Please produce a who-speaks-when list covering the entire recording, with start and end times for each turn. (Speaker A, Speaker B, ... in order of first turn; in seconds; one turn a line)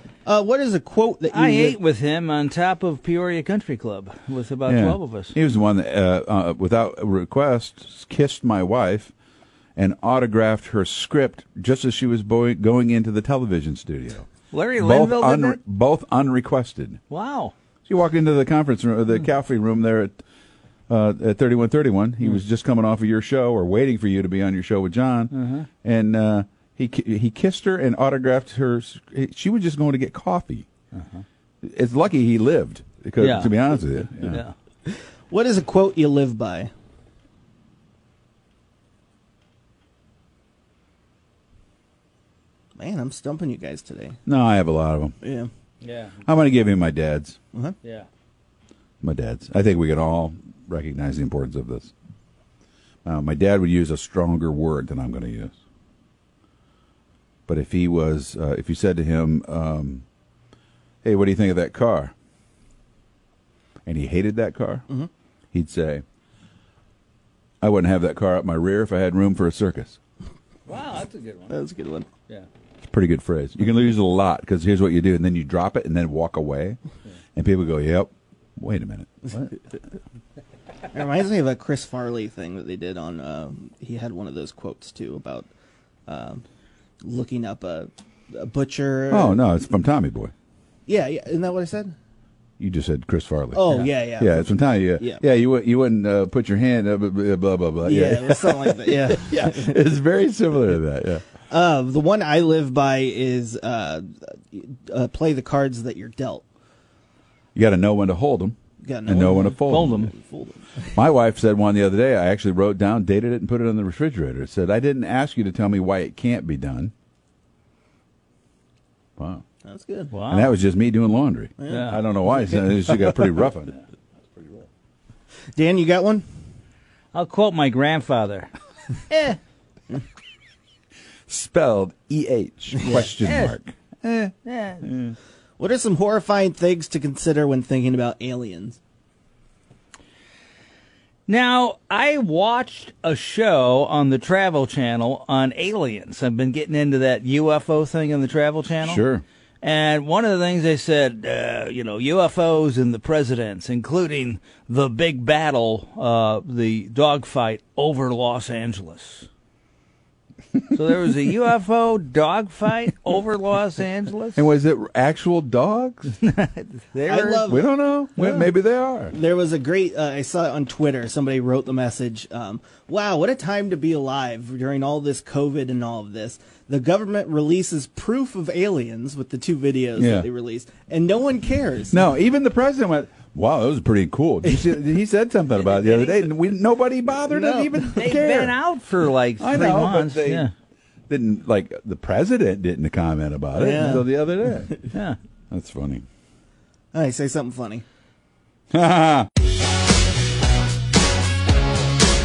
Speaker A: 0.2-1.8
Speaker B: 1.3-5.3
Speaker C: 4.7-9.1
Speaker C: 9.8-17.0
Speaker B: 14.5-15.6
Speaker B: 17.1-17.5
Speaker C: 17.9-20.1
Speaker C: 20.9-25.3
Speaker B: 25.3-25.7
Speaker C: 25.8-30.7
Speaker B: 30.9-31.2
Speaker C: 31.6-34.4
Speaker B: 33.2-34.5
Speaker A: 34.9-36.7
Speaker A: 42.8-44.2
Speaker C: 44.2-45.1
Speaker A: 45.2-45.5
Speaker B: 45.8-46.2
Speaker C: 46.2-47.4
Speaker B: 47.8-48.1
Speaker C: 49.0-51.9
Speaker C: 53.0-55.5
Speaker C: 57.5-60.0
Speaker C: 61.0-62.1
Speaker C: 63.9-64.8
Speaker C: 65.5-66.0
Speaker C: 67.6-70.0
Speaker B: 70.7-71.6
Speaker A: 71.5-72.1
Speaker C: 72.8-76.8
Speaker C: 77.3-79.5
Speaker A: 80.9-85.5
Speaker A: 86.1-86.4
Speaker A: 87.0-89.5
Speaker C: 89.1-90.3
Speaker A: 90.9-91.9
Speaker C: 92.6-101.2
Speaker A: 93.5-95.2
Speaker A: 97.8-99.8
Speaker A: 101.5-106.4
Speaker C: 107.5-110.0
Speaker A: 108.8-111.0
Speaker B: 109.6-110.1
Speaker C: 110.9-116.9
Speaker C: 119.2-119.4
Speaker A: 119.6-120.1
Speaker B: 120.1-120.5
Speaker C: 120.3-123.7
Speaker A: 121.6-123.1
Speaker B: 121.7-122.0
Speaker B: 124.4-124.6
Speaker A: 125.5-126.2
Speaker B: 127.1-128.5
Speaker B: 129.1-129.4
Speaker C: 131.3-135.1
Speaker B: 133.0-133.6
Speaker B: 134.4-134.9
Speaker A: 135.6-138.8
Speaker B: 141.3-149.0
Speaker C: 148.8-149.2
Speaker B: 149.6-159.3
Speaker B: 160.7-164.4
Speaker C: 164.3-166.1
Speaker B: 166.2-167.6
Speaker A: 167.0-167.7
Speaker C: 167.4-169.1
Speaker B: 168.1-168.5
Speaker A: 169.1-182.0
Speaker C: 180.0-180.3
Speaker C: 181.9-188.5
Speaker B: 185.6-186.5
Speaker A: 187.2-188.1
Speaker B: 187.9-190.5
Speaker C: 189.4-190.5
Speaker C: 191.1-194.8
Speaker A: 193.5-194.1
Speaker B: 194.9-195.2
Speaker C: 195.5-196.0
Speaker A: 196.9-197.8
Speaker C: 198.7-199.3